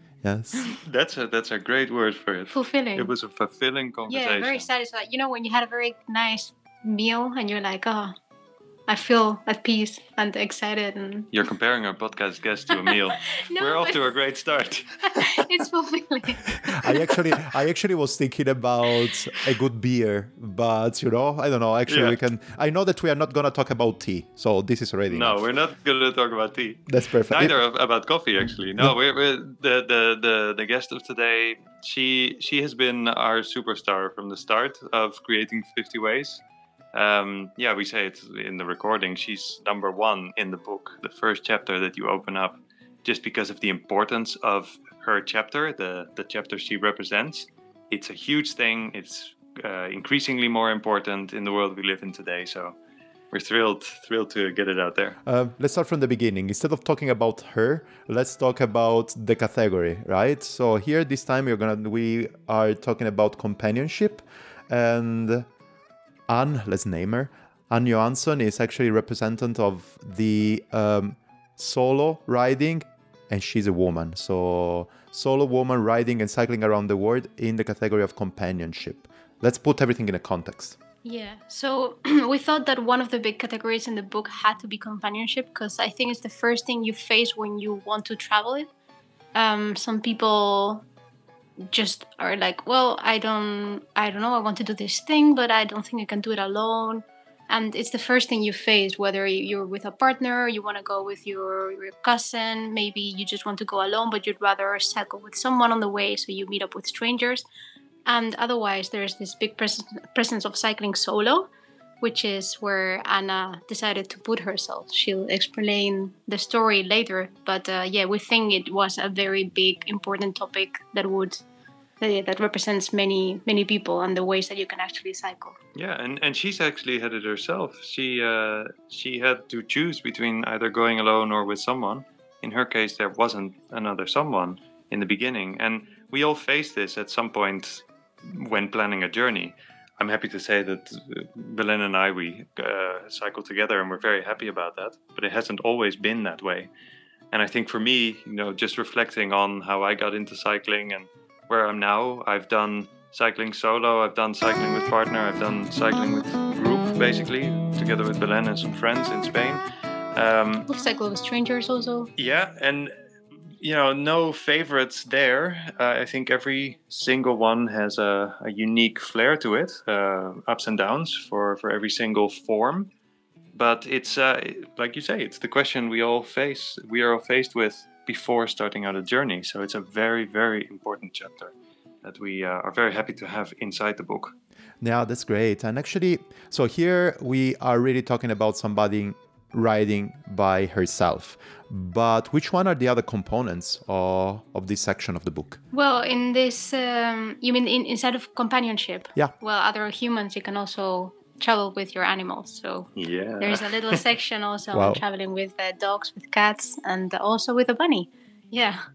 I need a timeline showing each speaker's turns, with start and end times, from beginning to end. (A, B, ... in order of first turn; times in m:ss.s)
0:00.2-0:00.8 A
0:00.8-0:04.7 B
0:02.5-0:03.1 C
0:04.1-0:08.2 C
0:08.9-0:11.3 C
0:11.3-0:15.5 B
0:12.8-0:14.0 C
0:15.1-0:17.1 C
0:16.8-0:25.4 A
0:21.9-0:22.2 B
0:25.1-0:36.4 B
0:26.9-0:27.6 A
0:36.9-0:52.8 B
0:53.3-0:55.2 B
0:55.2-1:05.5 A
1:06.3-1:20.8 A
1:21.0-1:28.7 C
1:29.3-1:30.9 C
1:31.6-1:47.4 C
1:48.0-1:51.5 C
1:52.0-2:01.4 C
2:02.0-2:05.6 C
2:05.7-2:26.7 B
2:27.3-2:39.6 B
2:40.1-2:40.7 B
2:40.7-2:42.1 C
2:42.2-2:42.9 B
2:43.6-2:52.9 B
2:53.5-3:04.3 B
3:04.8-3:15.6 A
3:15.7-3:28.8 C
3:23.0-3:24.0 B
3:24.7-3:25.0 A